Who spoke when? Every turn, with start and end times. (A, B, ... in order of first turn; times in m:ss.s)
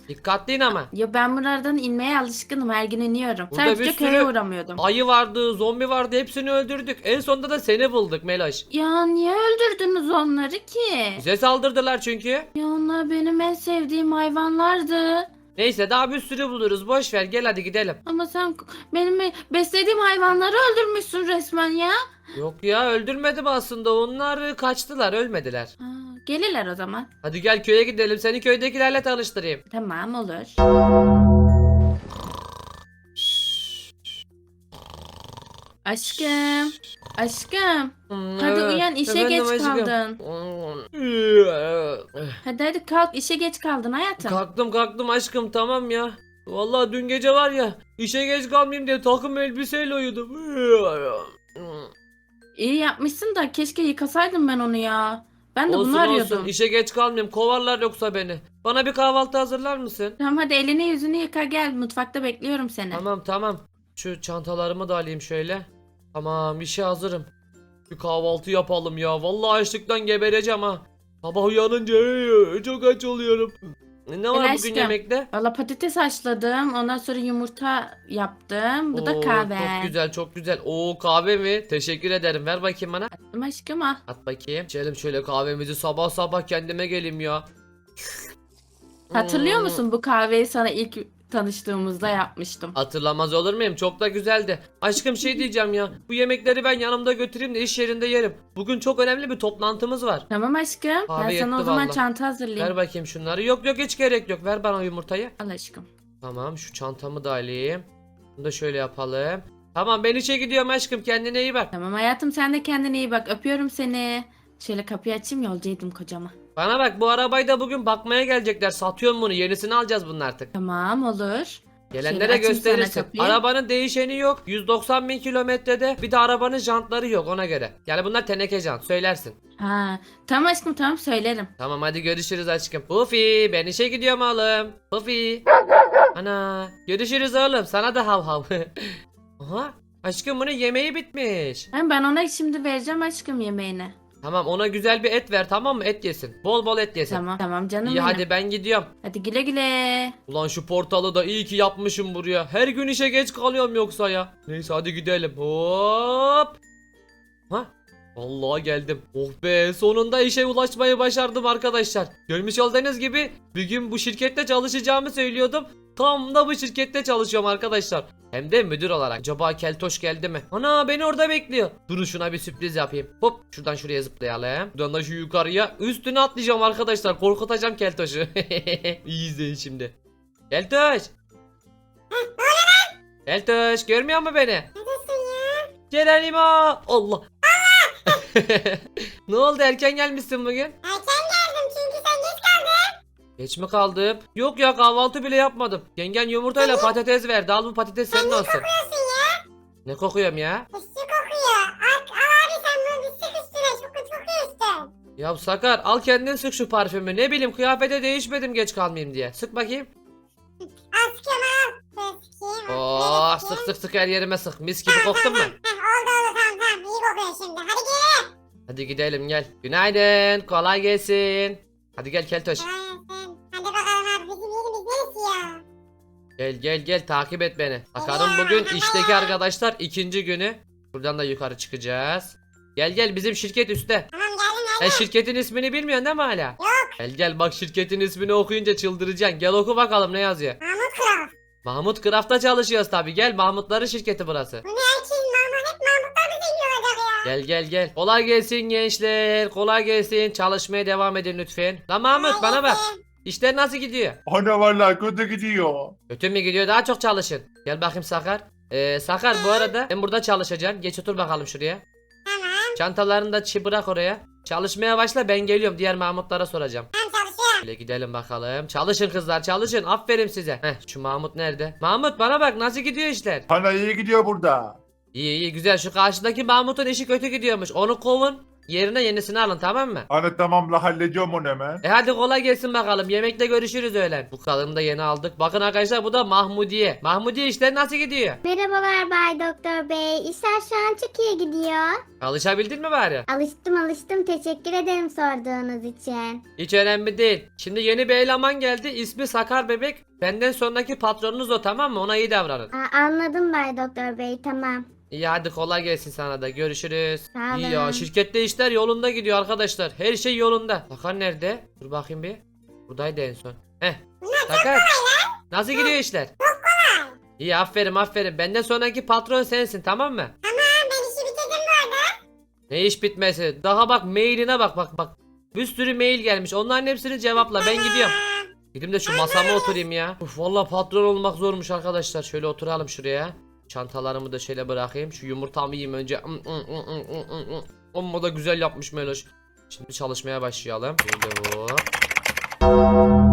0:00.1-0:00.9 A
0:00.7-0:04.8 B
0:03.5-0:08.6 A
0:08.7-0:11.2 B
0:11.2-0:12.5 A
0:12.6-0:15.3 B
0:15.6-0:18.0 A
0:18.1-0:22.0 B
0:22.3-0:25.7 A
0:25.8-0:27.1 B
0:27.2-0:29.6 A
0:29.7-0:30.6 B
0:35.8-0:40.2 B
0:38.1-0:42.4 A
0:42.4-0:44.4 B
0:44.2-0:51.9 A
0:52.6-0:56.5 B
0:55.7-1:00.2 A
1:00.2-1:03.0 B
1:02.9-1:07.3 A
1:07.9-1:15.3 A
1:14.3-1:19.9 B
1:18.9-1:23.1 A
1:23.2-1:24.0 B
1:24.1-1:27.4 A
1:29.1-1:29.8 A
1:29.1-1:32.7 B
1:32.8-1:40.2 A
1:40.3-1:42.7 B
1:41.1-1:42.0 A
1:42.6-1:45.3 A
1:45.4-1:45.9 B
1:46.2-1:47.9 A
1:48.4-1:51.7 A
1:51.7-1:56.3 B
1:56.6-2:00.5 A
2:00.5-2:03.4 B
2:01.9-2:09.4 A
2:09.6-2:11.5 B
2:11.6-2:15.5 A
2:16.2-2:21.7 A
2:21.7-2:24.0 B
2:24.2-2:27.2 A
2:27.1-2:28.2 B
2:27.8-2:28.9 A
2:29.0-2:30.2 B
2:30.3-2:36.5 A
2:37.5-2:59.9 A
3:00.5-3:01.1 A
3:02.1-3:02.9 C
3:03.3-3:04.7 A
3:04.8-3:05.7 C
3:05.9-3:07.2 A
3:07.5-3:08.2 C
3:08.2-3:10.8 A
3:10.8-3:13.0 C
3:13.4-3:18.7 A
3:16.6-3:16.9 C
3:18.1-3:19.3 C
3:19.8-3:20.7 A
3:20.7-3:24.9 C
3:25.2-3:29.9 A
3:30.6-3:33.7 C
3:32.7-3:35.5 A
3:34.9-3:38.3 C
3:38.7-3:42.6 A
3:42.6-3:45.6 C
3:46.4-3:54.1 A
3:48.0-3:49.3 C
3:54.1-3:55.0 C
3:54.8-4:00.6 A
3:56.6-3:57.0 C
4:00.6-4:01.3 C
4:01.6-4:04.6 A
4:04.7-4:07.3 C
4:07.2-4:14.2 A
4:12.1-4:13.0 C
4:14.3-4:16.0 D
4:16.1-4:21.8 A
4:19.4-4:19.7 C
4:22.3-4:22.8 C
4:22.8-4:26.9 A
4:27.0-4:27.6 C
4:27.6-4:33.4 A
4:33.5-4:34.8 D
4:35.1-4:40.1 A
4:40.1-4:41.8 D
4:41.8-4:48.4 A
4:48.4-4:52.0 E
4:52.2-4:53.2 A
4:53.3-4:56.4 E
4:56.6-5:02.7 A
5:02.7-5:04.8 E
5:05.1-5:14.9 A
5:07.4-5:08.1 E
5:14.2-5:17.1 C
5:15.5-5:16.3 A
5:17.4-5:20.3 A
5:20.4-5:22.1 C
5:22.7-5:28.2 A
5:27.6-5:28.4 C
5:28.7-5:41.9 A
5:29.1-5:29.8 C